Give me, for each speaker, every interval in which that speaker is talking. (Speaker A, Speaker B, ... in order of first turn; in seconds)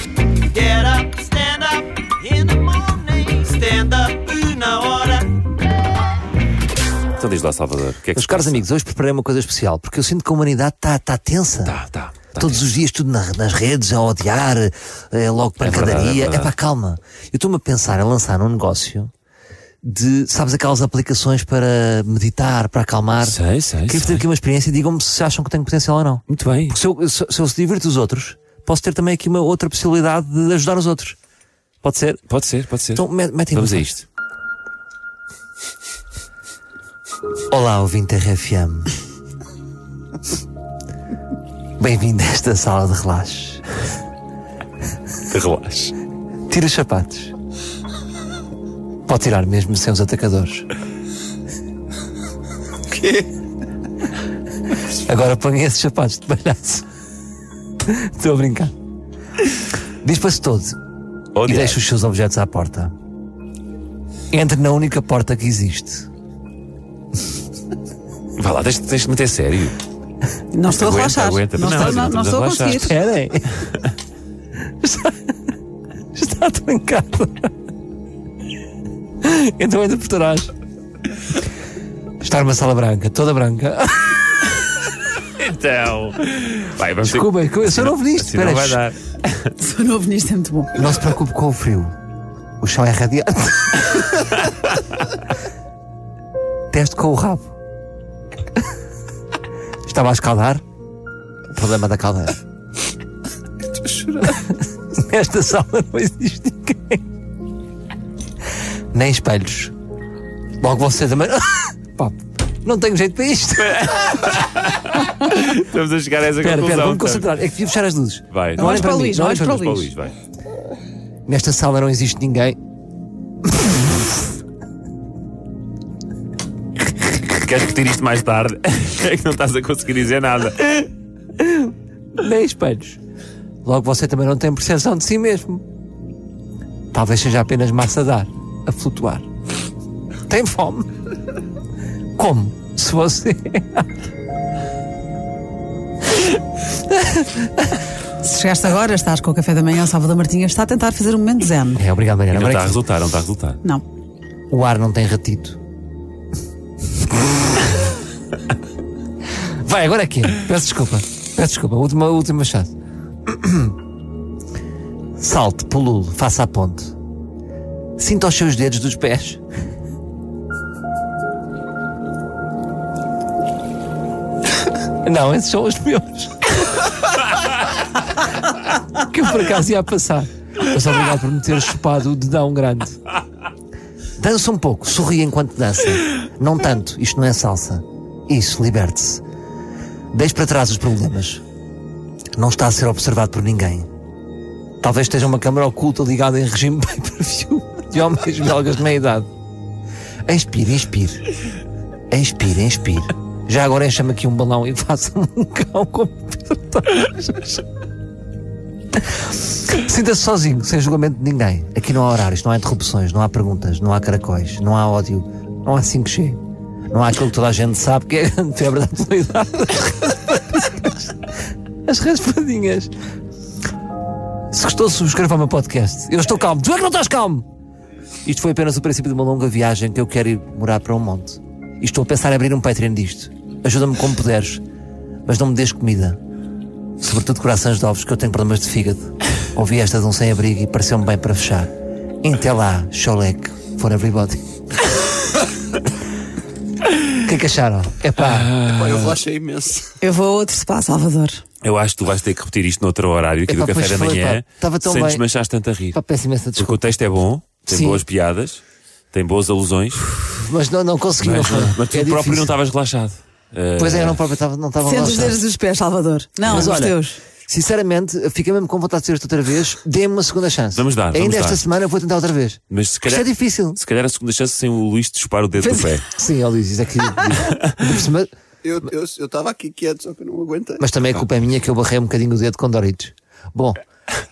Speaker A: 0.5-5.3
Speaker B: 7.2-8.6, 11.6-12.7, 15.6-16.5, 23.2-24.2, 26.3-26.8, 32.3-34.0, 45.3-46.0, 61.4-61.8, 68.4-69.8, 70.7-72.9, 85.4-89.5, 113.6-117.3, 118.3-120.2, 127.3-130.9, 152.3-153.6, 248.2-249.1, 251.6-256.0, 256.6-260.1, 261.2-264.2, 270.8-271.6, 272.7-276.1, 277.4-277.8
Speaker C: 8.2-11.8, 12.4-19.1, 19.8-31.2, 31.8-32.2, 32.9-33.9, 37.5-38.9, 41.8-43.6, 46.5-47.3, 49.1-50.7, 54.8-56.9, 57.8-58.7, 60.0-60.8, 61.5-62.9, 64.3-66.1, 72.8-73.7, 74.8-75.3, 76.2-77.5, 79.2-80.5, 82.2-84.3, 87.0-88.8, 90.8-91.9, 92.6-94.3, 96.7-97.5, 99.9-100.6, 101.5-102.4, 104.2-107.0, 108.9-109.7, 110.6-114.2, 116.4-119.7, 121.3-122.6, 123.6-124.0, 132.2-133.0, 133.6-135.6, 136.9-139.2, 140.3-140.9, 142.2-143.9, 147.0-147.5, 151.8-152.8, 154.5-155.6, 159.6-162.7, 163.3-163.8, 165.2-166.9, 168.0-169.4, 175.0-176.5, 178.9-183.0, 184.2-189.2, 190.1-191.4, 192.4-193.9, 194.8-199.3, 200.3-201.3, 202.1-207.6, 209.2-216.4, 216.9-221.2, 221.9-222.9, 224.5-227.5, 228.2-234.6, 235.3-236.2, 237.0-241.7, 242.2-244.4, 247.2-248.6, 253.5-255.2, 255.9-256.9, 257.7-258.0, 260.2-262.5, 263.8-265.4, 266.4-273.8, 276.1-278.3, 280.8-283.8
Speaker D: 52.9-53.3, 248.7-249.9, 278.6-280.9
Speaker E: 70.5-73.0, 89.6-90.8, 118.6-119.9, 148.2-151.8, 250.0-251.4, 264.8-267.2, 275.6-276.0